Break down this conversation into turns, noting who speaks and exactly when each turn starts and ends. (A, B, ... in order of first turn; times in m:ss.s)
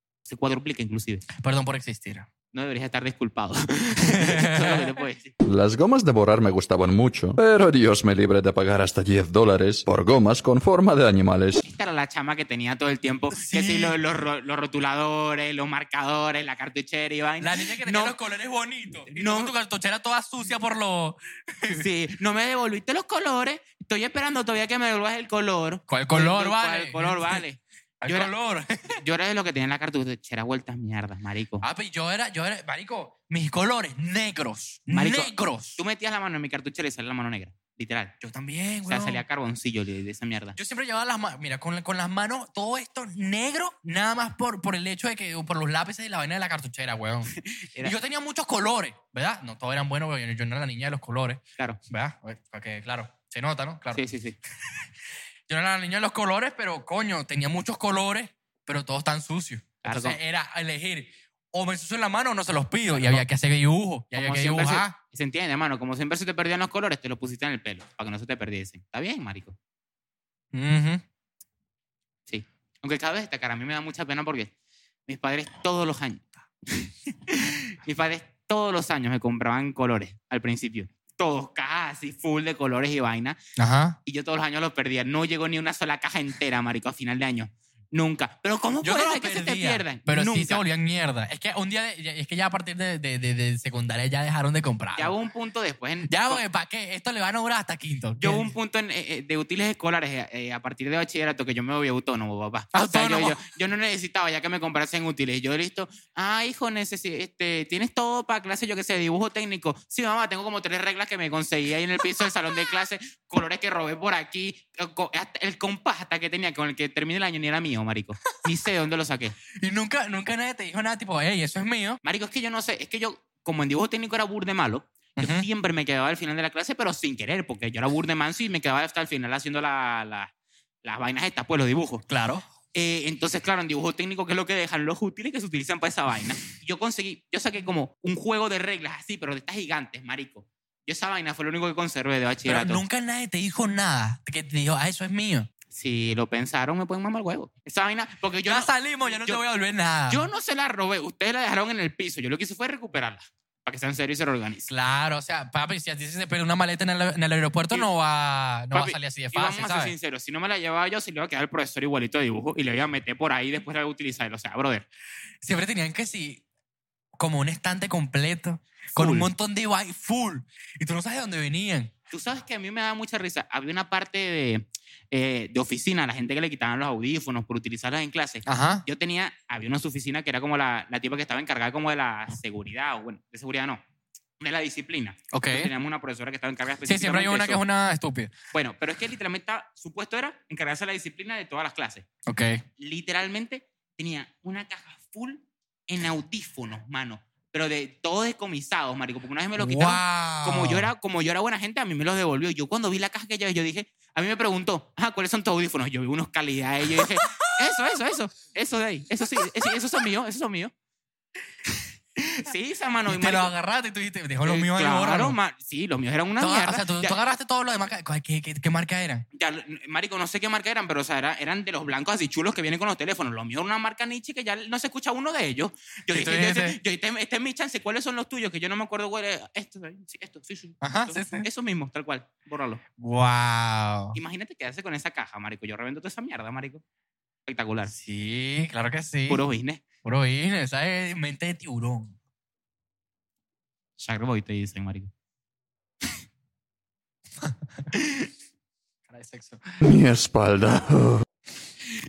0:00.2-0:01.2 A
0:01.4-0:02.3 B
0:02.5-0:05.3 A
0:04.0-0:04.8 B
0:05.4-0:11.6 C
0:11.6-0:18.2 A
0:13.3-0:14.0 B
0:17.4-0:21.8 B
0:19.1-0:19.5 A
0:21.7-0:28.3 A
0:25.9-0:27.4 B
0:28.0-0:29.0 B
0:29.0-0:31.6 A
0:31.6-0:35.8 B
0:34.9-0:38.2 A
0:38.2-0:39.2 B
0:38.9-0:40.6 A
0:40.6-0:54.0 B
0:47.6-0:47.9 A
0:54.0-0:54.4 A
0:55.5-1:05.0 B
0:59.8-1:00.2 A
1:02.9-1:03.2 A
1:04.1-1:09.6 A
1:10.5-1:11.0 B
1:12.3-1:14.5 A
1:15.1-1:23.4 A
1:23.6-1:24.0 B
1:24.1-1:30.6 A
1:28.8-1:35.1 B
1:35.0-1:36.4 A
1:36.1-1:38.5 B
1:38.2-1:59.4 A
1:42.7-1:43.4 B
1:59.6-2:02.0 B
2:02.0-2:10.3 A
2:05.2-2:05.5 B
2:10.8-2:12.0 A
2:12.1-2:12.4 B
2:12.7-2:22.8 A
2:22.5-2:25.5 B
2:25.7-2:29.4 A
2:28.5-2:30.2 B
2:30.1-2:34.7 A
2:34.7-2:39.9 B
2:38.7-2:44.9 A
2:45.4-2:46.4 B
2:47.2-2:51.9 B
2:48.9-2:49.3 A
2:52.1-3:03.8 A
2:58.5-2:58.8 B
3:04.4-3:07.6 A
3:05.3-3:05.7 B
3:06.9-3:08.3 B
3:08.5-3:12.1 A
3:12.3-3:12.6 B
3:12.8-3:30.7 A
3:19.6-3:20.9 B
3:32.4-3:33.5 A
3:33.1-3:35.4 B
3:34.4-3:37.2 A
3:36.4-3:39.2 B
3:39.3-3:52.8 A
3:46.1-3:46.8 B
3:50.8-3:51.5 B
3:53.0-3:54.2 B
3:54.2-3:56.8 A
3:57.5-3:57.9 A
3:57.9-3:59.4 B
3:59.3-3:59.8 A
4:00.0-4:02.2 B
4:04.0-4:05.1 A
4:07.4-4:07.8 B
4:09.1-4:09.6 B
4:09.8-4:11.2 C